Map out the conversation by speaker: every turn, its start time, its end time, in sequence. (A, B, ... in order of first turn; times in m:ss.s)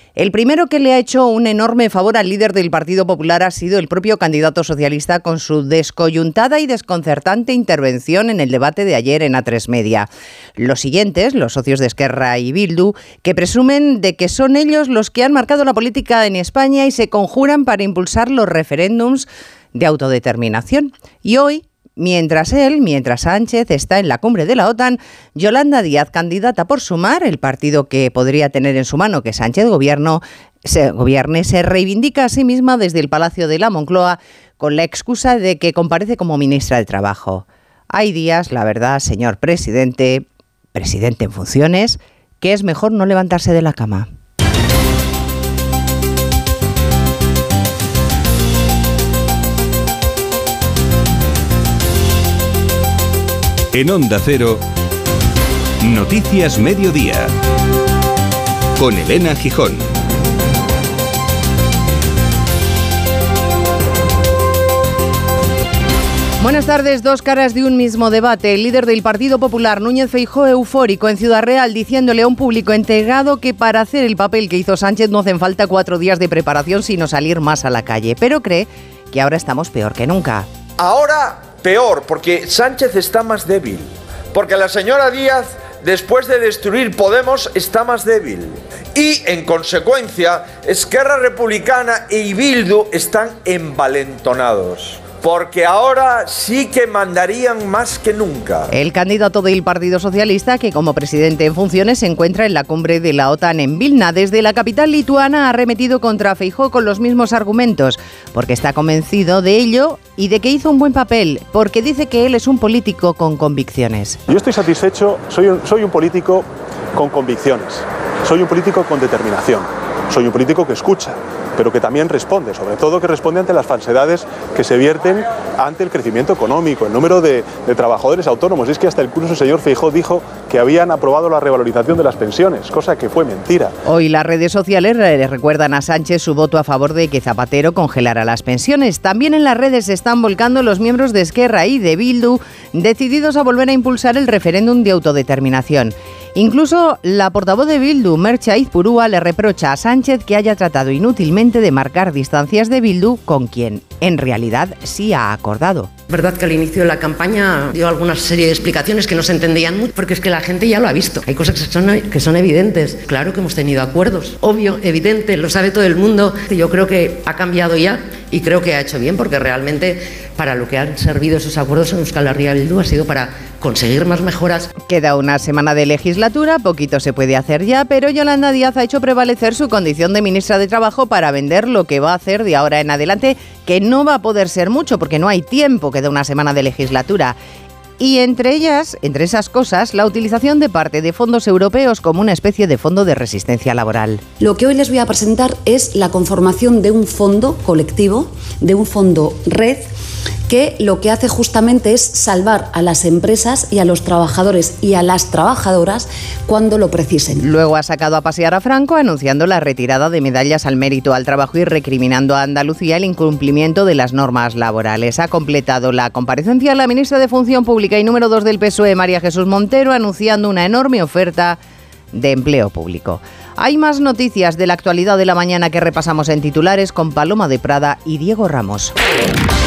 0:00.2-0:44.1 A
0:53.7-0:54.6 B
0:55.8-0:57.3 B
0:58.8-0:59.8 B
1:06.4-1:20.5 A
1:20.8-1:38.7 C
1:38.7-1:54.2 A
1:54.3-2:13.7 D
2:13.8-2:35.9 A
2:36.1-2:54.7 E
2:54.9-3:07.4 A
3:08.0-3:14.2 A
3:14.4-3:19.9 F
3:20.5-3:27.4 F
3:27.4-3:41.6 A
3:42.1-3:48.9 A